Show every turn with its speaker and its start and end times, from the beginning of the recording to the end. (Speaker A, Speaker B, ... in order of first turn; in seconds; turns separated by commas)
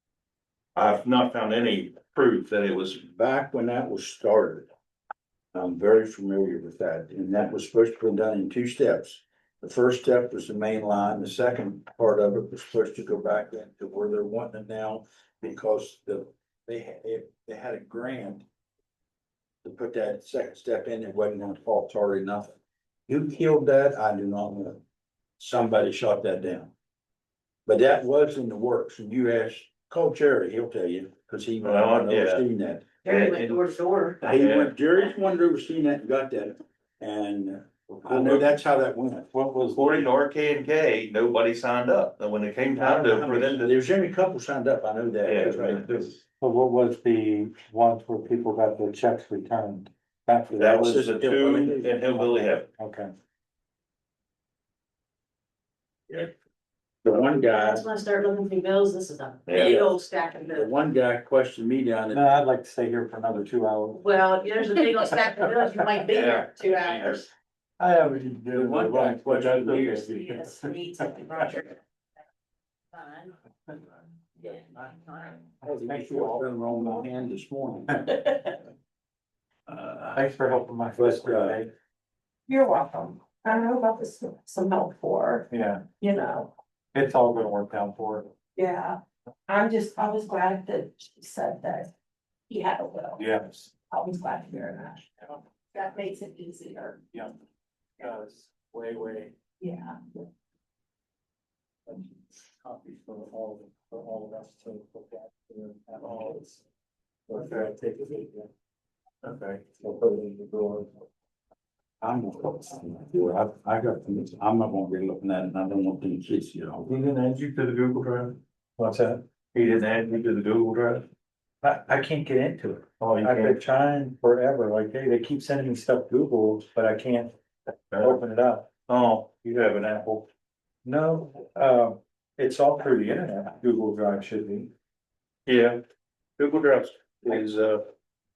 Speaker A: 0.8-3.0, Speaker B: 3.0-4.7, Speaker B: 5.5-18.4, Speaker B: 19.6-22.5, Speaker B: 23.1-24.8, Speaker B: 25.4-26.7, Speaker B: 27.6-32.9, Speaker A: 31.6-32.4, Speaker A: 33.0-33.6, Speaker C: 33.1-34.2, Speaker D: 33.1-34.2, Speaker B: 34.2-39.3, Speaker A: 34.2-34.7, Speaker A: 38.0-38.5, Speaker E: 39.3-40.1, Speaker A: 39.7-43.8, Speaker B: 42.7-46.1, Speaker A: 45.2-46.0, Speaker E: 46.4-53.1, Speaker A: 50.6-52.6, Speaker B: 57.0-57.8, Speaker C: 57.4-60.7, Speaker D: 57.8-59.1, Speaker A: 59.5-59.8, Speaker B: 59.5-59.8, Speaker B: 60.5-62.4, Speaker E: 62.1-64.1, Speaker D: 64.0-66.6, Speaker C: 64.0-67.2, Speaker A: 66.1-67.2, Speaker E: 67.8-71.4, Speaker B: 68.5-70.1, Speaker D: 70.2-71.4, Speaker C: 70.4-71.7, Speaker D: 72.9-73.2, Speaker C: 73.0-73.3, Speaker E: 75.6-77.0, Speaker B: 75.6-78.1, Speaker B: 79.7-80.2, Speaker E: 80.1-81.7, Speaker B: 81.0-81.6, Speaker D: 82.5-85.5, Speaker E: 85.5-85.8, Speaker D: 86.0-86.5, Speaker E: 86.9-88.3, Speaker D: 88.6-91.9, Speaker D: 92.5-93.2, Speaker E: 93.2-93.7, Speaker D: 93.9-95.0, Speaker D: 95.7-97.0, Speaker E: 98.0-99.3, Speaker D: 99.6-99.9, Speaker E: 101.9-106.6, Speaker E: 107.3-108.5, Speaker A: 109.2-109.6, Speaker E: 109.6-110.9, Speaker B: 112.0-116.9, Speaker A: 116.8-118.4, Speaker E: 118.8-119.2, Speaker A: 119.5-121.0, Speaker E: 121.6-127.3, Speaker A: 123.0-123.5, Speaker A: 127.9-128.2, Speaker E: 128.0-128.7, Speaker A: 128.9-130.3, Speaker E: 130.8-134.7, Speaker A: 135.4-135.8, Speaker A: 136.4-137.8